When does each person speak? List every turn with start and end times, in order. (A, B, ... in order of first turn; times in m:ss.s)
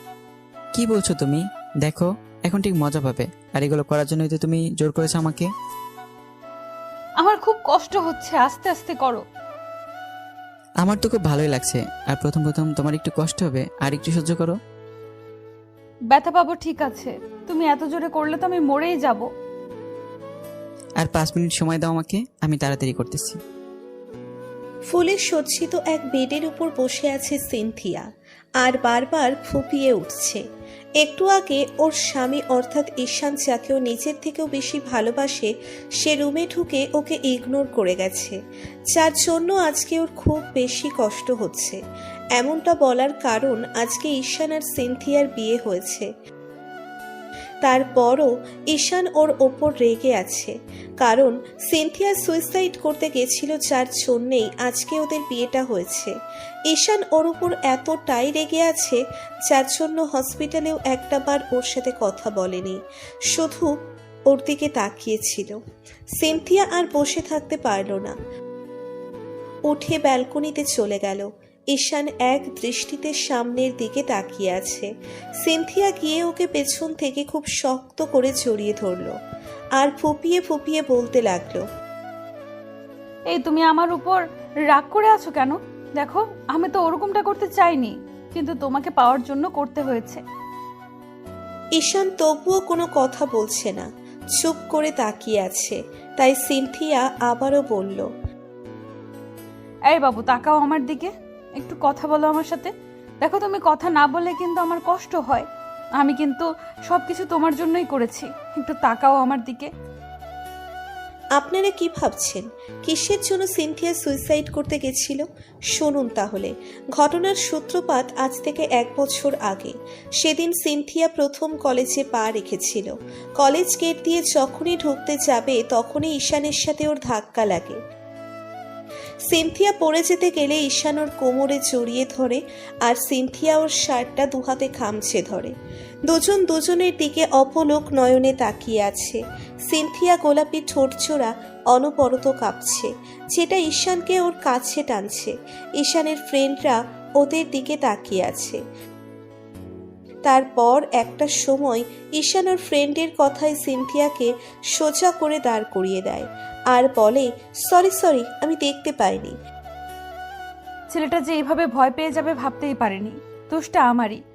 0:00.8-0:05.5 A
0:07.2-0:09.2 B
0:10.8-0:14.6 A
0:16.1-0:19.3 B
0:21.0-0:23.4 A
0:24.9-0:28.0 C
0:28.6-0:30.4 C
0:31.0-0:38.4 C
0:39.0-0:41.8 C
0:42.4-0:46.1 C
0:47.6-0:56.1 C
0:56.7-1:02.8 C
1:03.3-1:03.7 C
1:04.3-1:05.6 C
1:06.2-1:08.2 C
1:09.7-1:14.9 C
1:15.4-1:19.1 C
1:19.8-1:21.6 C
1:23.3-1:30.2 B
1:31.8-1:33.9 C
1:34.4-1:38.1 C
1:39.9-1:42.7 B
1:43.2-1:45.5 B
1:46.0-1:49.7 B
1:51.4-1:55.2 C
1:55.7-2:07.8 C
2:09.3-2:15.5 C
2:16.1-2:28.6 C
2:30.3-2:39.4 C
2:40.9-2:44.2 B